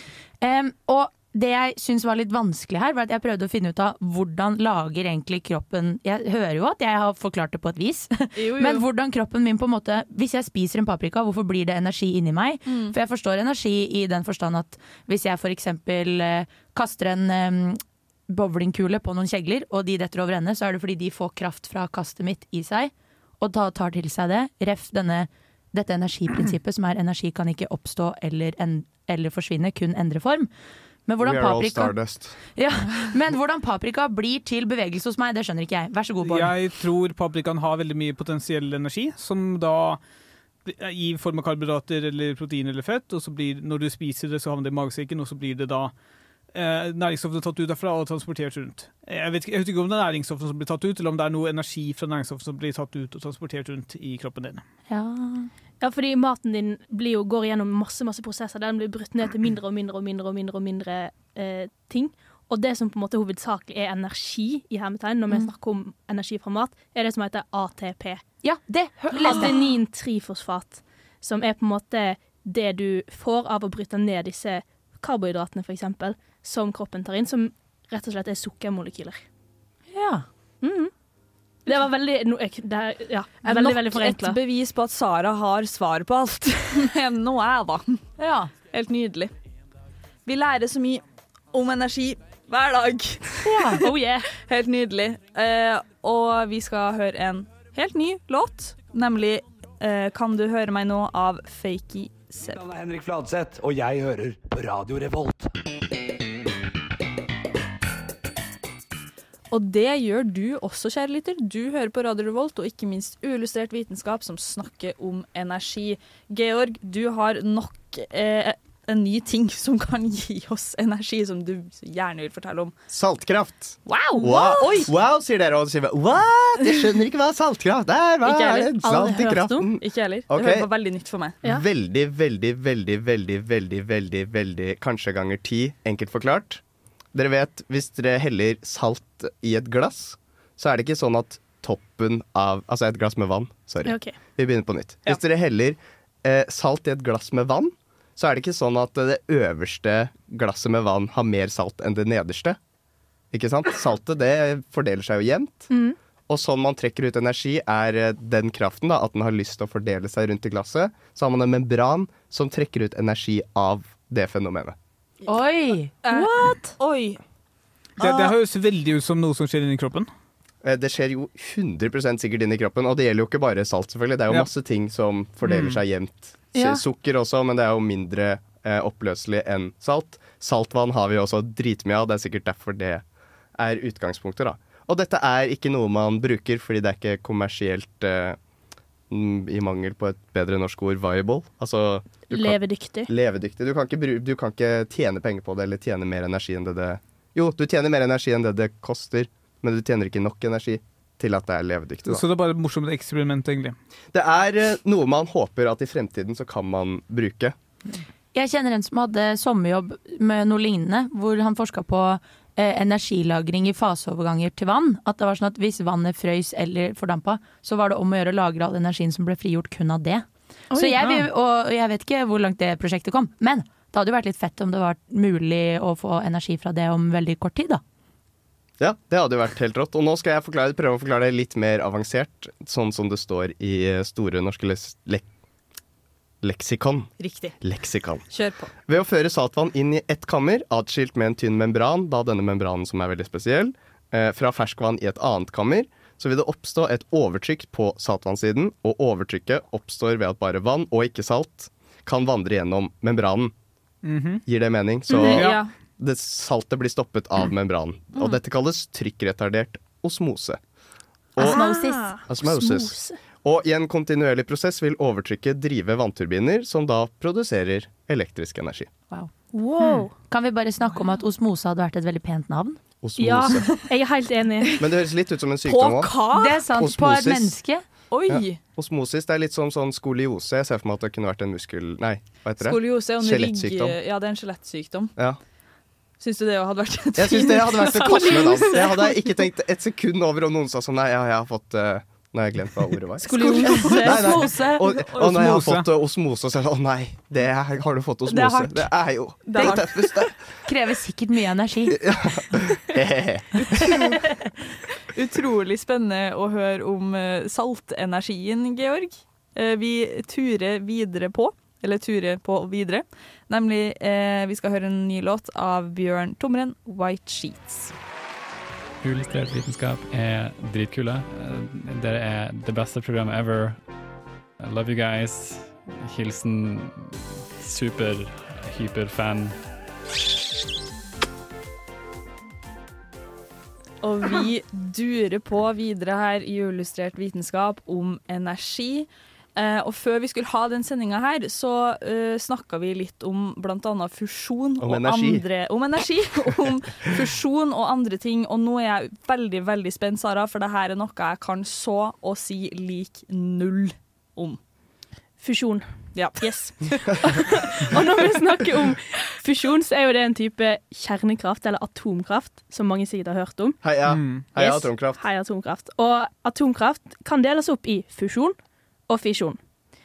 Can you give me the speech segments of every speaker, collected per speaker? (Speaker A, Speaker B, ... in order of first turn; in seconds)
Speaker A: 0.4-30.5, 31.1-32.0, 32.5-36.6, 54.9-55.5, 68.4-69.6, 79.9-80.2, 88.2-88.5, 93.4-93.8, 165.3-166.7, 208.3-227.8, 261.4-262.1, 270.3-272.8, 276.3-277.8, 293.7-294.8, 298.3-298.9, 299.5-299.9, 300.6-302.0
Speaker B: 8.3-8.8, 12.7-12.9, 83.4-88.0, 88.7-89.3, 90.2-102.6, 109.5-122.7, 123.9-124.9, 128.2-128.7, 129.8-131.3, 166.0-167.2, 237.2-237.6, 238.3-238.7, 255.1-255.7, 258.1-258.4, 275.6-276.6, 278.1-278.6, 282.6-285.1, 286.2-289.3, 293.7-294.4, 294.9-295.3, 299.4-300.1, 305.1-317.9, 334.0-354.6, 356.1-357.2
Speaker C: 31.2-32.4, 122.9-130.7, 131.4-136.6, 137.1-152.6, 153.3-155.7, 156.3-164.8, 170.6-183.0, 183.6-188.4, 189.1-202.2, 204.1-207.6, 228.8-235.3, 236.4-237.1, 237.6-238.2, 238.9-253.5, 254.5-260.6, 261.3-261.6, 262.2-268.9, 273.0-273.8, 274.8-276.2, 276.7-277.6, 278.3-283.9, 287.1-300.3, 301.9-304.1, 344.8-345.4, 363.8-365.2
Speaker D: 36.2-40.0, 40.6-45.9, 46.5-54.6, 168.0-170.1, 175.4-175.8, 202.0-203.8, 221.0-221.3, 254.0-254.4, 255.2-255.6, 295.2-295.9, 364.1-364.5
Speaker E: 55.8-68.2, 69.1-79.2, 80.6-80.9, 81.7-84.4, 93.5-94.3, 124.1-124.6, 128.8-129.7, 143.8-144.1, 155.7-155.9, 192.3-193.1, 261.4-263.2, 269.5-270.1, 273.2-274.8, 287.9-288.9, 293.2-294.2, 355.4-355.8, 356.4-363.8, 364.5-368.6, 369.1-369.6
Speaker F: 102.5-105.5
Speaker G: 319.0-323.9, 324.6-329.6